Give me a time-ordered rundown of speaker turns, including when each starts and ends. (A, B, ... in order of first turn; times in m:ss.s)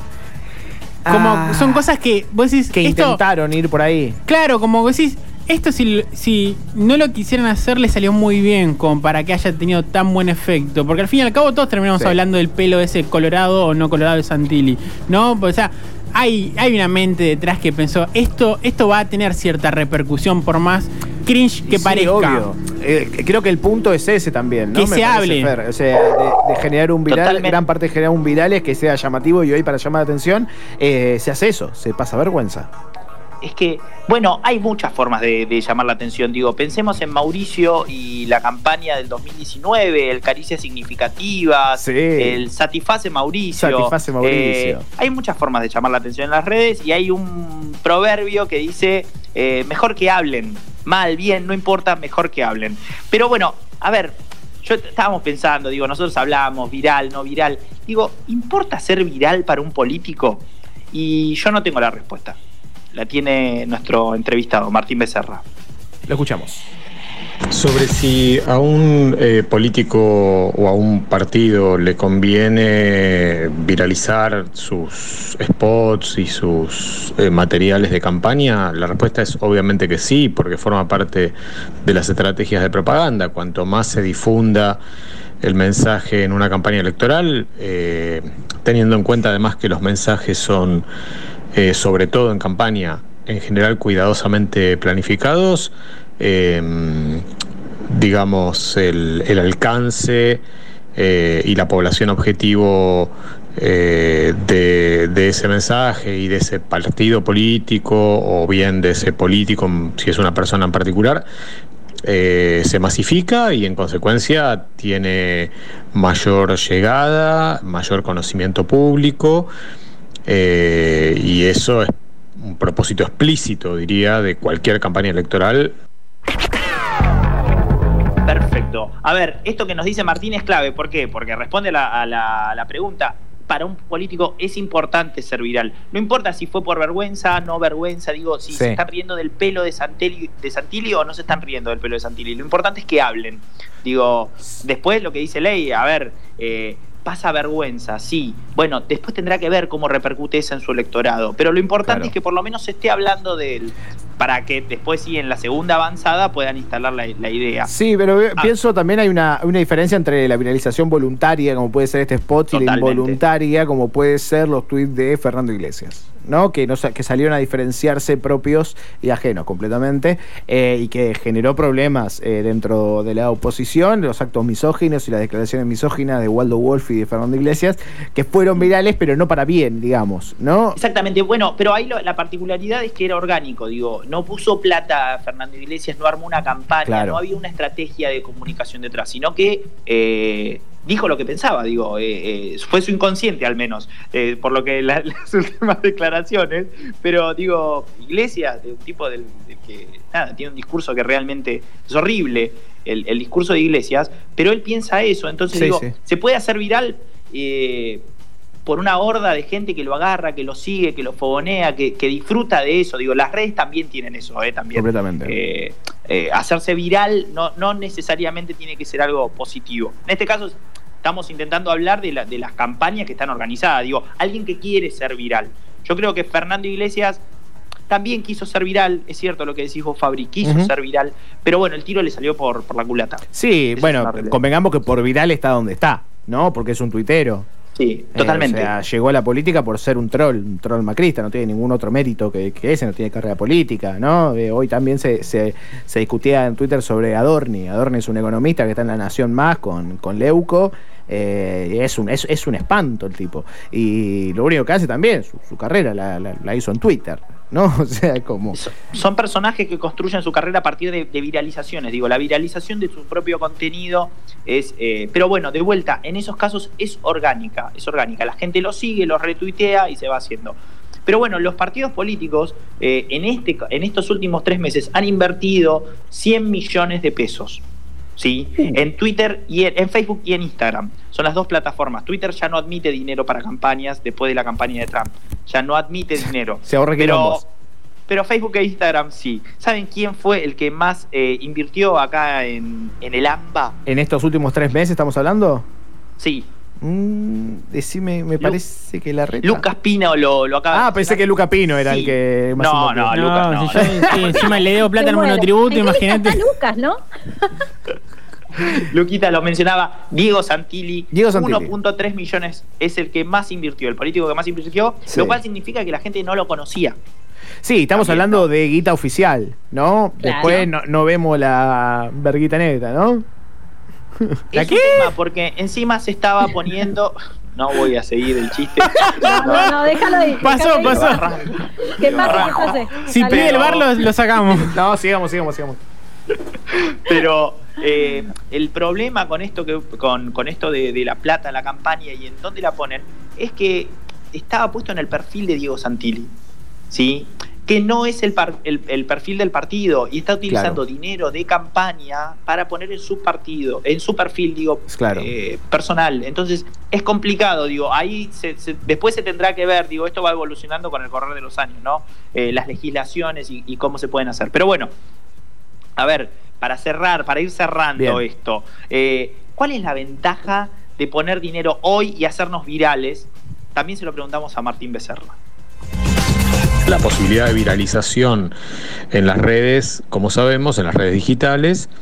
0:01.0-0:01.9 A
0:01.1-0:03.2 B
0:02.7-0:04.2 A
0:04.3-0:22.5 B
0:21.7-0:32.7 A
0:24.8-0:25.5 B
0:27.1-0:27.6 C
0:33.4-1:02.4 C
0:41.8-0:42.4 A
0:43.5-0:44.8 A
1:02.9-1:05.4 C
1:06.1-1:06.7 A
1:07.5-1:24.8 D
1:25.4-1:30.9 D
1:31.5-1:37.2 D
1:37.9-1:40.4 D
1:41.0-1:51.2 D
1:52.0-1:59.5 D
2:00.3-2:05.7 D
2:08.2-2:37.7 C
2:18.5-2:18.8 A
2:31.9-2:32.1 A
2:37.7-3:00.8 A
2:42.5-2:43.2 C
3:00.8-3:28.1 C
3:06.8-3:07.2 A
3:25.5-3:25.9 A
3:28.7-3:47.2 C
3:34.7-3:35.4 A
3:47.9-3:54.4 C
3:50.4-3:50.7 A
3:53.3-3:57.5 A
3:57.8-3:58.7 C
3:58.2-4:18.6 A
4:18.5-4:37.6 C
4:38.2-4:47.5 C
4:46.6-4:47.4 A
4:48.1-4:53.8 C
4:53.9-4:55.6 A
4:56.2-4:56.5 C
4:56.8-4:59.6 A
4:59.4-5:04.6 C
5:00.7-5:03.2 A
5:03.1-5:06.4 B
5:03.7-5:04.3 A
5:04.4-5:07.5 E
5:08.7-5:17.0 C
5:11.1-5:11.7 A
5:15.1-5:15.4 A
5:17.6-5:23.2 A
5:17.9-5:18.5 C
5:20.2-5:20.6 E
5:24.5-5:29.8 C
5:24.6-5:25.1 B
5:28.9-5:31.3 B
5:29.2-5:31.3 E
5:30.8-5:33.9 C
5:31.8-5:33.8 E
5:33.1-5:34.8 B
5:34.6-5:35.8 A
5:36.8-5:46.3 C
5:46.9-6:04.9 C
5:50.5-5:50.8 A
5:54.9-5:55.3 A
6:06.0-6:15.4 C
6:08.0-6:08.2 A
6:16.8-6:18.5 D
6:19.1-6:21.9 D